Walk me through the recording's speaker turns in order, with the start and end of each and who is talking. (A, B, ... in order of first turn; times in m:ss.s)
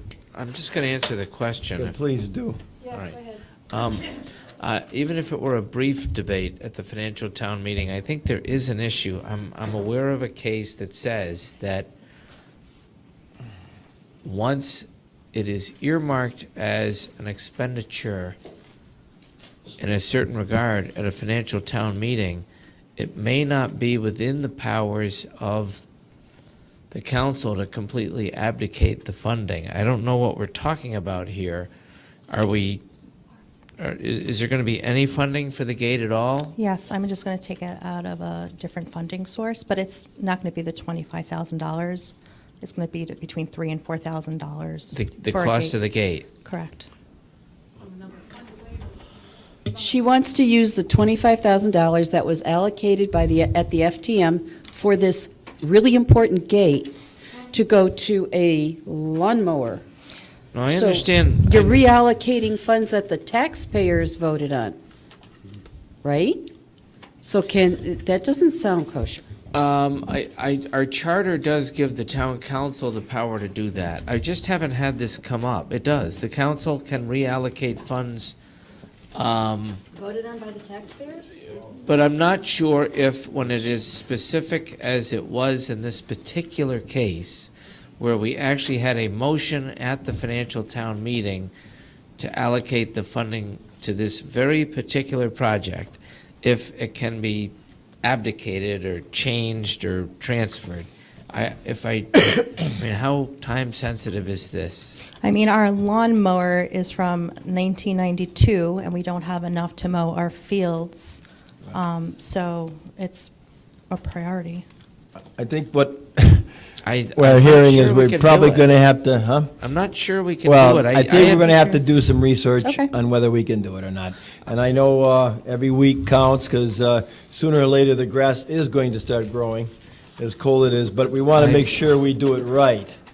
0:00.3-0:02.0 A
0:01.8-0:02.6 B
0:02.9-0:11.9 A
0:14.2-0:18.4 A
0:19.8-0:22.5 A
0:23.0-0:25.8 A
0:26.9-0:31.7 A
0:32.3-0:32.8 A
0:33.8-0:36.6 A
0:36.6-0:46.9 C
0:44.9-0:46.3 A
0:49.7-0:57.0 D
0:57.5-0:59.8 D
1:00.5-1:01.9 A
1:00.7-1:04.8 D
1:06.0-1:06.5 D
1:07.2-1:09.2 D
1:09.5-1:18.4 A
1:19.1-1:19.8 A
1:20.0-1:21.3 D
1:21.8-1:31.5 A
1:32.2-1:45.0 A
1:45.2-1:53.3 C
1:53.9-1:54.6 C
1:55.4-1:56.5 B
1:56.8-1:58.7 A
1:57.2-1:59.5 B
1:59.6-2:01.6 A
2:00.4-2:13.0 B
2:01.2-2:01.9 C
2:02.6-2:02.9 C
2:11.4-2:11.7 A